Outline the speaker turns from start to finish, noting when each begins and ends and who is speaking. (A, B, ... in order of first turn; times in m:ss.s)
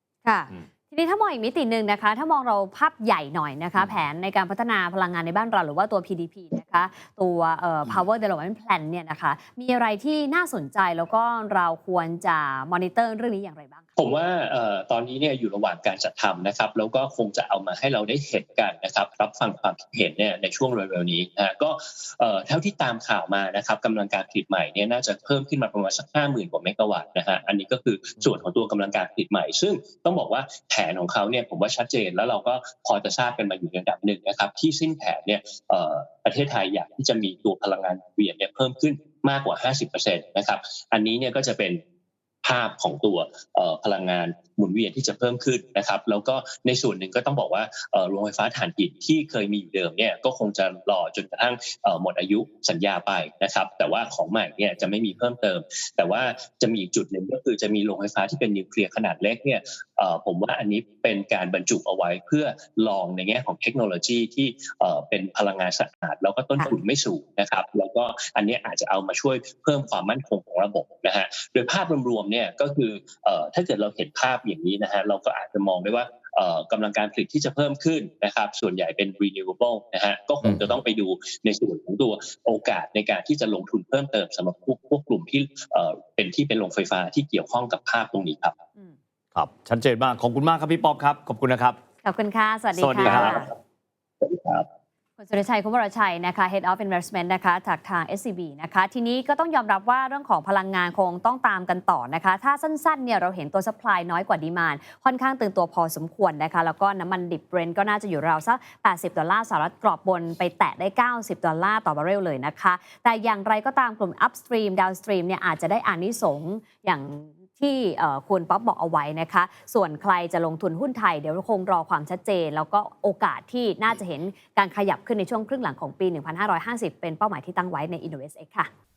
0:00.2-0:13.9 A
0:14.0-0:41.8 B
0:42.4-1:28.6 B
1:29.4-1:31.8 C
1:32.0-1:33.5 A
1:32.8-1:33.4 C
1:33.0-1:33.5 B
1:34.2-1:34.7 B
1:35.2-2:08.7 A